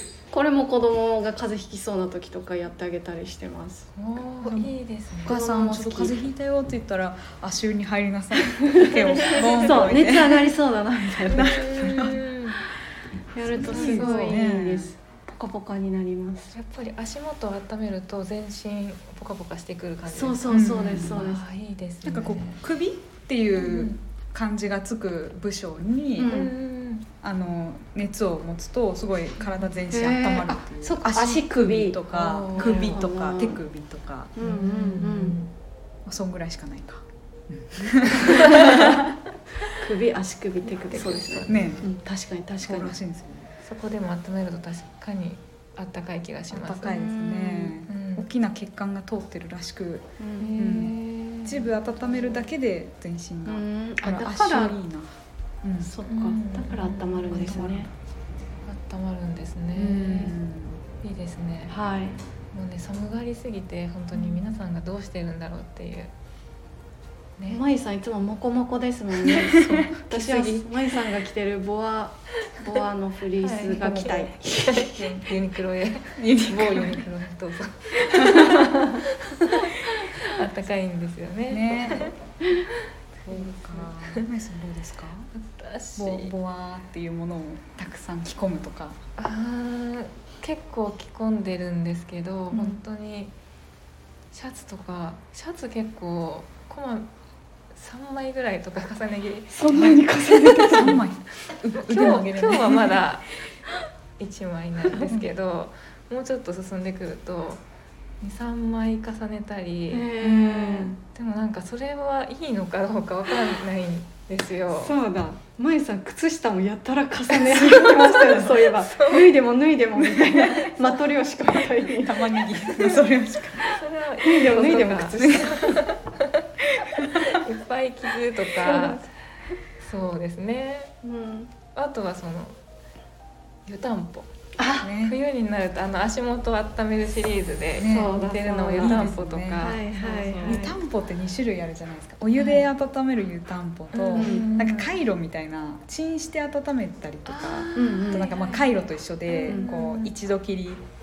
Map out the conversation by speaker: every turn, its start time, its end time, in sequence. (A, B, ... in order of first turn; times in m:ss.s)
0:00.3-0:03.9 A
0:04.0-0:05.4 B
0:04.4-0:10.6 C
0:05.2-0:06.2 A
0:08.7-0:11.7 A
0:08.8-0:09.8 B
0:11.2-0:12.2 C
0:11.3-0:12.6 B
0:13.3-0:16.5 A
0:13.5-0:14.9 C
0:13.5-0:14.4 B
0:16.5-0:22.6 B
0:20.0-0:21.4 A
0:20.5-0:21.3 C
0:22.0-0:26.4 C
0:23.5-0:24.0 B
0:26.2-0:26.5 A
0:26.3-0:27.0 B
0:27.2-0:34.3 C
0:29.4-0:29.7 B
0:29.9-0:32.0 A
0:32.1-0:33.0 B
0:32.5-0:33.6 A
0:34.4-0:35.4 A
0:34.4-0:35.5 B
0:36.0-0:39.1 C
0:38.4-0:38.8 B
0:39.8-0:42.9 A
0:40.6-0:41.7 B
0:41.4-0:41.8 C
0:42.6-0:43.5 C
0:43.6-0:46.9 B
0:46.5-0:55.9 C
0:46.8-0:47.8 A
0:47.9-0:48.3 B
0:50.2-0:50.5 A
0:50.4-0:52.5 B
0:53.4-0:54.8 A
0:55.8-0:57.9 A
0:56.0-0:57.7 B
0:57.3-0:57.9 C
0:58.6-1:00.4 B
0:59.7-1:00.8 C
1:01.0-1:01.7 B
1:01.7-1:02.2 A
1:02.5-1:06.1 B
1:07.4-1:07.6 B
1:07.5-1:15.2 A
1:09.2-1:10.7 C
1:13.4-1:24.2 B
1:13.7-1:14.2 C
1:16.2-1:17.0 C
1:18.1-1:18.7 C
1:21.5-1:22.1 C
1:23.2-1:25.3 C
1:25.3-1:26.3 B
1:26.0-1:29.0 C
1:29.2-1:33.3 B
1:32.5-1:32.8 A
1:34.3-1:37.1 B
1:37.7-1:39.8 B
1:39.5-1:41.0 A
1:39.7-1:43.0 C
1:40.7-1:41.0 B
1:41.8-1:43.4 B
1:44.2-1:47.6 B
1:48.2-1:55.0 B
1:49.9-1:51.0 A
1:54.8-2:02.4 A
1:57.4-1:58.7 C
1:58.8-1:59.3 B
1:59.9-2:01.0 C
2:01.5-2:03.6 C
2:03.6-2:06.4 B
2:04.2-2:05.6 A
2:05.1-2:05.9 C
2:07.0-2:09.0 B
2:08.6-2:09.1 A
2:09.8-2:10.9 B
2:11.0-2:11.5 A
2:11.7-2:12.6 B
2:13.6-2:14.3 B
2:14.6-2:14.9 A
2:14.8-2:15.2 C
2:14.9-2:20.8 B
2:17.8-2:18.2 C
2:17.9-2:19.1 A
2:18.7-2:19.7 C
2:19.6-2:20.6 A
2:20.4-2:30.8 C
2:22.3-2:22.7 B
2:23.9-2:24.9 B
2:24.1-2:24.5 A
2:27.2-2:30.1 B
2:27.7-2:28.3 A